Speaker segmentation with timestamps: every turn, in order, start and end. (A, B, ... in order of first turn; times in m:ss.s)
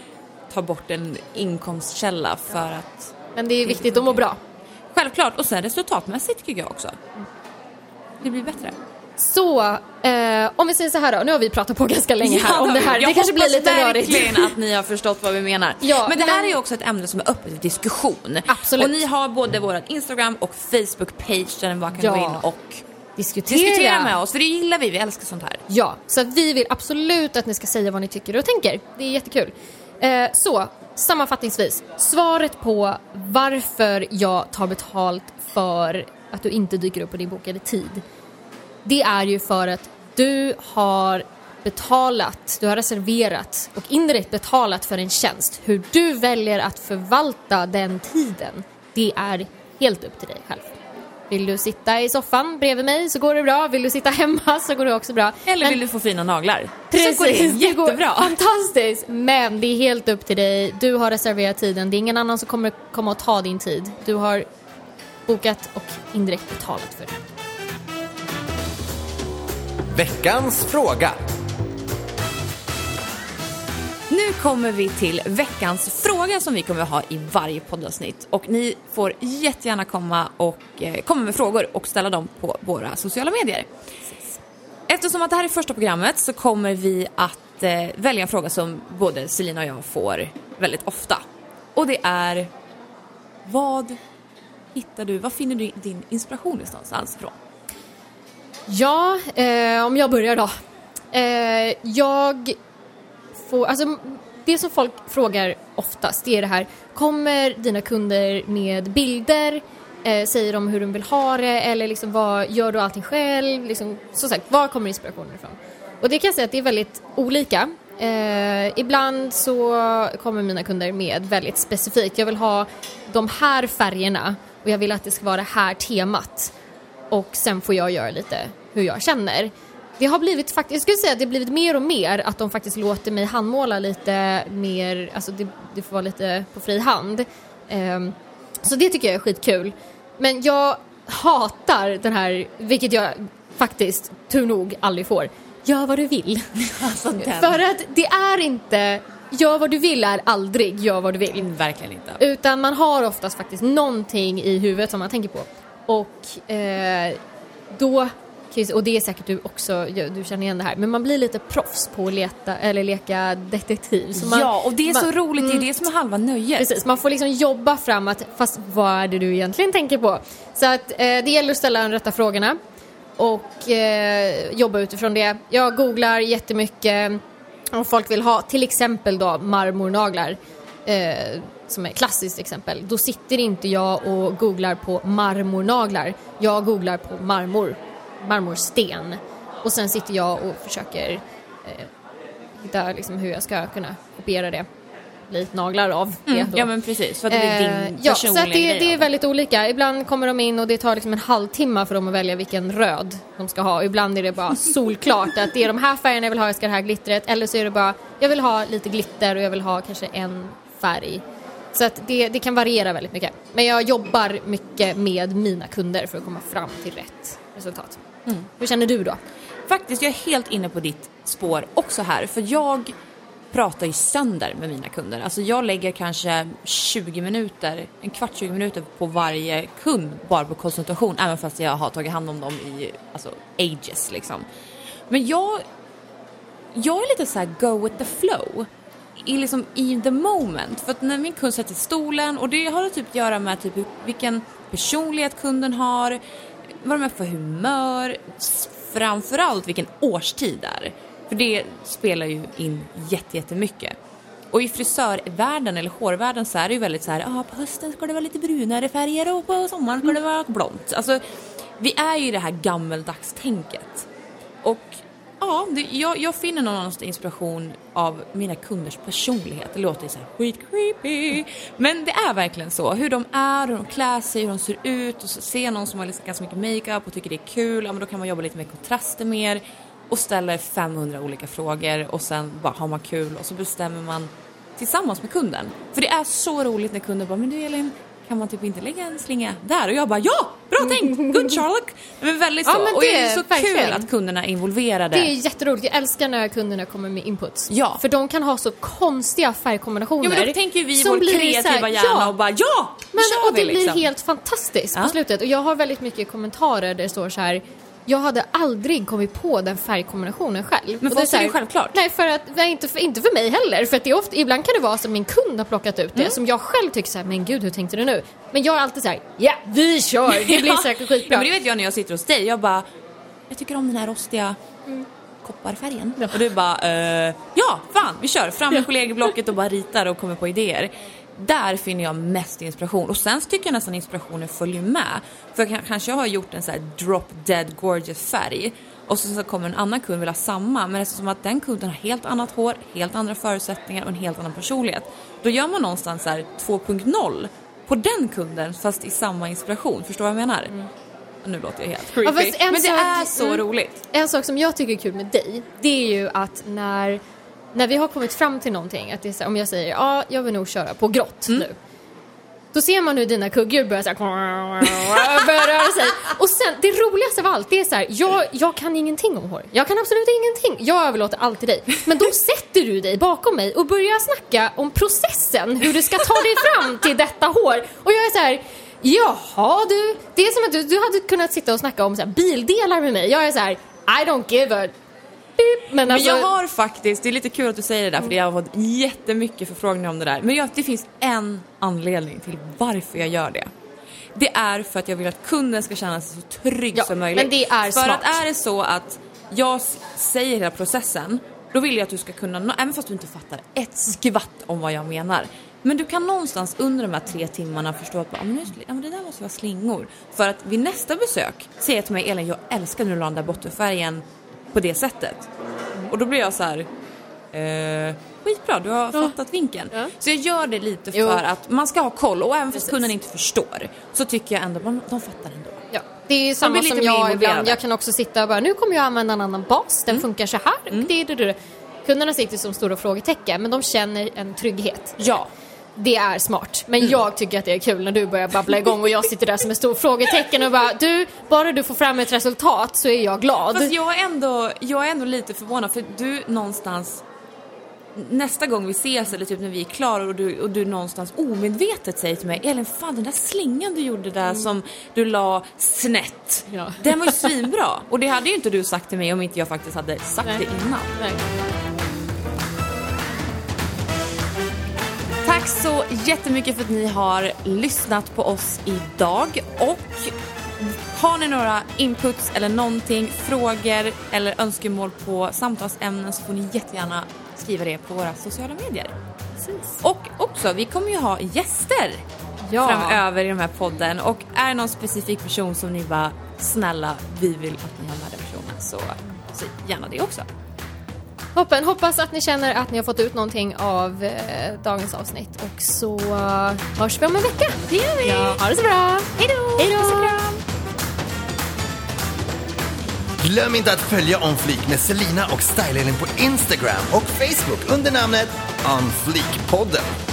0:00.5-0:03.1 A
0:03.4-0:04.4 B
0:03.6-0:04.2 A
0:04.9-0:07.0 A
0:08.2-0:08.8 A
0:09.2-0:14.6 B
0:12.2-0:22.8 A
0:15.8-0:16.6 B
0:18.5-0:19.0 B
0:22.0-0:22.4 B
0:23.2-0:24.2 B
0:23.5-0:25.6 A
0:25.7-0:38.0 B
0:38.8-0:50.8 B
0:51.3-0:55.8 B
0:55.5-0:58.4 A
0:56.9-1:04.5 B
1:05.3-1:07.2 B
1:10.0-1:11.2 C
1:14.1-1:23.7 A
1:24.9-1:31.2 A
1:31.8-1:32.5 A
1:33.4-1:34.0 A
1:34.7-1:37.4 A
1:38.7-1:40.5 B
1:41.1-1:42.6 B
1:43.4-2:06.5 B
2:07.1-2:26.6 B
2:26.6-2:27.6 A
2:27.2-2:31.5 B
2:31.4-2:32.2 A
2:32.2-2:37.2 B
2:37.7-2:45.7 B
2:44.2-2:46.7 A
2:46.6-2:52.6 B
2:53.2-2:57.2 B
2:57.7-3:11.9 B
3:12.6-3:14.7 B
3:15.3-3:16.7 B
3:16.3-3:19.0 A
3:17.3-3:31.2 B
3:31.7-3:38.0 B
3:38.6-3:39.2 B
3:39.7-3:42.9 A
3:43.5-3:54.4 A
3:55.1-3:55.6 A
3:56.8-4:06.2 A
4:06.8-4:14.0 A
4:14.5-4:21.2 A
4:21.8-4:24.1 A
4:24.6-4:55.3 A
4:50.9-4:51.6 B
4:52.7-4:54.1 B
4:55.1-5:02.3 B
4:57.7-4:58.0 A
5:00.2-5:04.1 A
5:03.1-5:21.5 B
5:11.0-5:12.0 A
5:20.3-5:22.8 A
5:23.5-5:24.6 A
5:25.4-5:50.7 A
5:51.4-5:54.0 A
5:52.2-5:57.2 B
5:57.7-6:01.8 B
6:02.7-6:24.9 B
6:25.6-6:26.5 B
6:26.1-6:33.7 A
6:34.4-6:55.5 A
6:37.0-6:38.4 B
6:56.1-6:56.9 A
6:57.5-7:05.8 A
7:01.2-7:01.4 B
7:05.9-7:15.4 B
7:06.6-7:07.8 A
7:15.2-7:15.5 A
7:16.0-7:23.9 B
7:23.7-7:27.2 A
7:28.2-7:41.1 A
7:36.7-7:37.4 B
7:45.4-7:59.1 A
7:59.6-8:00.0 B
8:00.0-8:02.2 A
8:02.7-8:03.2 B
8:02.8-8:10.5 A
8:11.6-8:20.5 B
8:17.9-8:18.6 A
8:19.4-8:20.6 A
8:23.4-8:30.1 C